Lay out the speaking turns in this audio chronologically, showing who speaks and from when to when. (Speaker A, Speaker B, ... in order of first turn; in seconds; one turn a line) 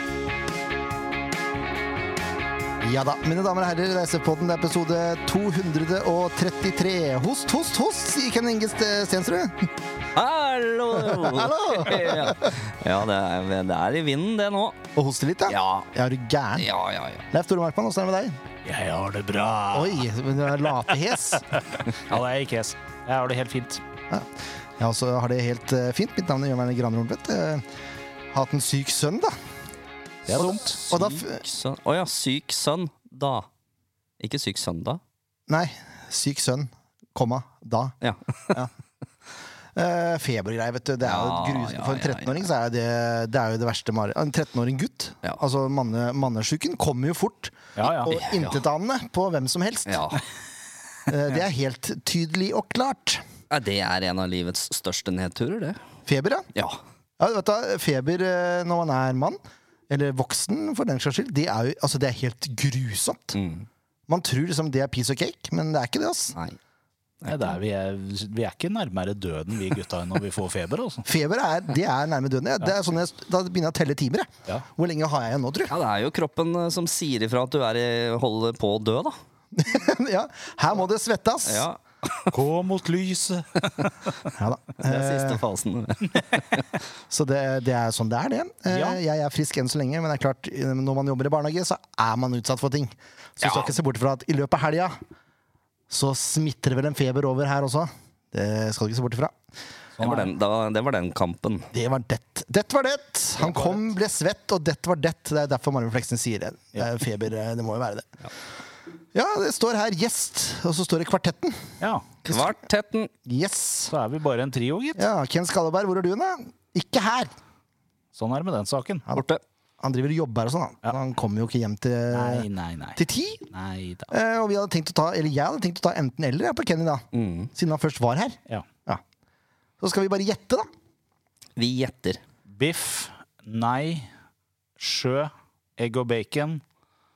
Speaker A: 2.8-9.7
Speaker B: 10.1-14.8
Speaker A: 11.0-12.5
Speaker A: 14.9-16.7
Speaker B: 15.5-15.9
Speaker B: 16.6-17.2
Speaker A: 17.3-18.4
Speaker C: 18.6-20.1
Speaker A: 19.7-21.5
Speaker C: 21.5-23.8
Speaker A: 24.1-27.6
Speaker A: 28.3-29.4
Speaker C: 30.3-30.8
Speaker A: 30.3-31.4
Speaker B: 30.4-33.5
Speaker B: 34.2-35.0
Speaker A: 35.5-37.9
Speaker B: 38.0-38.6
Speaker A: 39.7-50.0
Speaker B: 41.0-42.4
Speaker C: 47.8-48.1
Speaker B: 48.1-48.6
Speaker B: 49.9-50.2
Speaker A: 51.1-53.2
Speaker B: 53.5-55.8
Speaker A: 56.0-56.5
Speaker B: 56.5-56.8
Speaker A: 57.2-59.4
Speaker A: 59.9-63.4
Speaker B: 63.3-63.7
Speaker A: 64.1-66.3
Speaker B: 67.2-67.5
Speaker C: 67.3-71.0
Speaker A: 71.0-75.7
Speaker B: 75.7-79.2
Speaker A: 79.5-81.6
Speaker B: 81.5-82.3
Speaker C: 82.3-83.7
Speaker A: 84.3-85.4
Speaker B: 84.8-86.7
Speaker A: 87.1-95.0
Speaker C: 88.7-89.0
Speaker B: 93.4-93.7
Speaker A: 95.9-99.3
Speaker C: 100.0-100.3
Speaker B: 100.0-101.7
Speaker A: 101.7-108.1
Speaker C: 103.4-103.9
Speaker A: 109.1-111.7
Speaker C: 111.8-112.1
Speaker B: 112.2-113.1
Speaker A: 113.2-113.9
Speaker C: 113.9-115.0
Speaker A: 115.0-117.3
Speaker C: 118.1-119.0
Speaker B: 119.1-119.4
Speaker A: 119.8-123.5
Speaker C: 122.1-123.0
Speaker C: 123.5-124.1
Speaker A: 124.1-129.0
Speaker B: 127.1-127.5
Speaker A: 129.8-130.7
Speaker B: 131.6-132.2
Speaker C: 132.5-134.1
Speaker C: 134.8-136.6